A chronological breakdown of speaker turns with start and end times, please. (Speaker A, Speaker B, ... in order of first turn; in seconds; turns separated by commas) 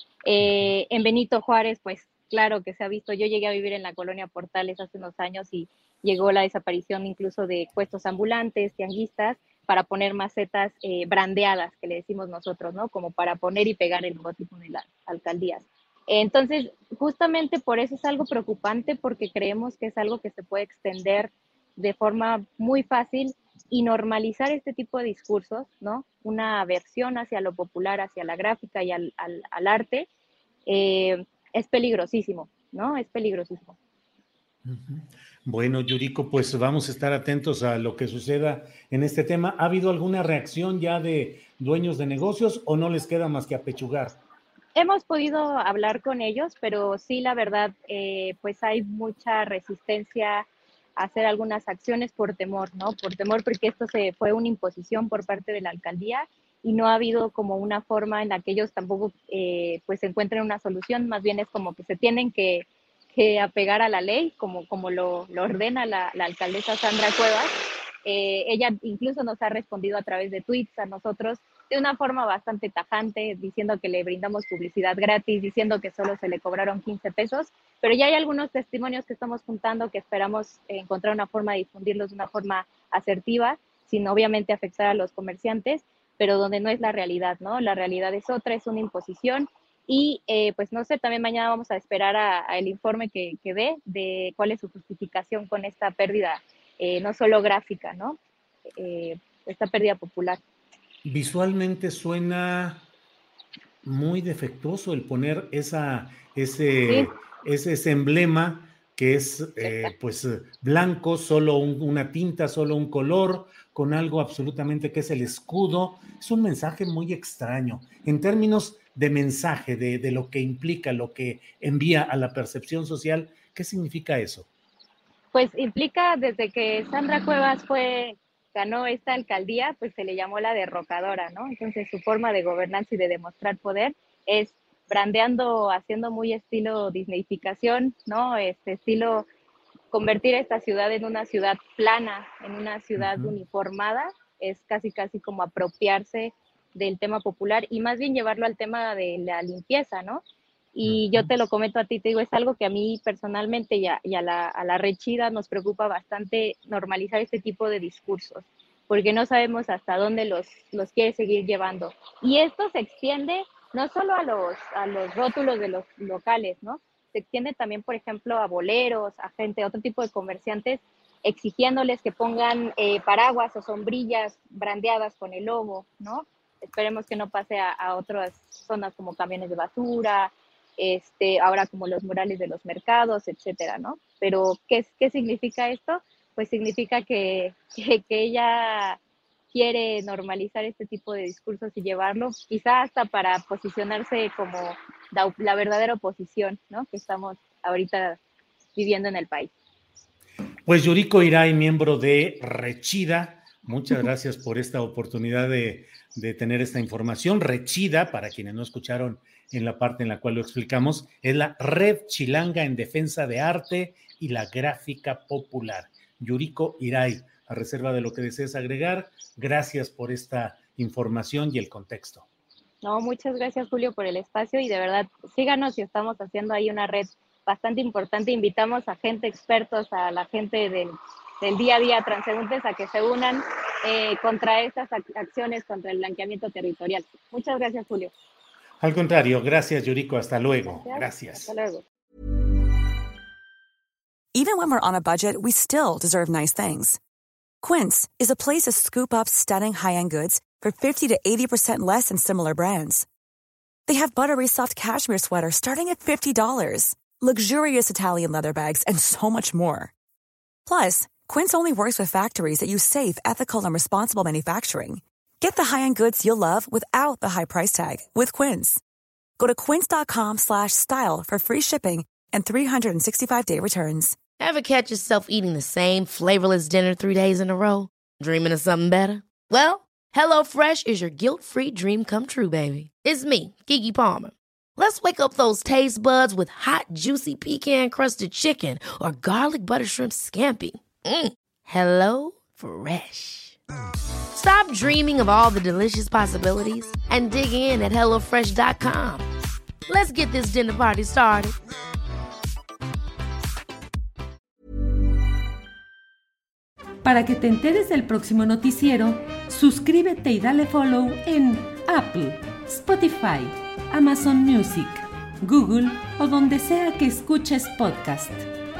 Speaker A: 0.2-30.1, Speaker A: 30.6-33.8, Speaker B: 34.6-44.2, Speaker A: 44.7-67.5, Speaker A: 68.0-98.2, Speaker A: 98.7-100.4, Speaker B: 101.0-102.9, Speaker B: 103.8-124.5, Speaker A: 106.9-107.1, Speaker A: 109.6-109.9, Speaker A: 125.3-139.3, Speaker A: 139.9-150.2, Speaker B: 143.0-143.3, Speaker A: 150.7-189.0, Speaker B: 150.8-151.3, Speaker A: 189.5-198.2, Speaker A: 198.7-199.5, Speaker B: 200.7-222.2, Speaker A: 222.8-238.1, Speaker B: 238.8-241.5, Speaker A: 240.7-241.8, Speaker C: 244.3-247.0, Speaker C: 247.6-253.1, Speaker C: 253.8-259.9, Speaker C: 260.6-268.8, Speaker C: 269.4-274.1, Speaker D: 274.4-293.6, Speaker D: 294.3-299.2, Speaker D: 299.9-301.6, Speaker E: 307.0-318.5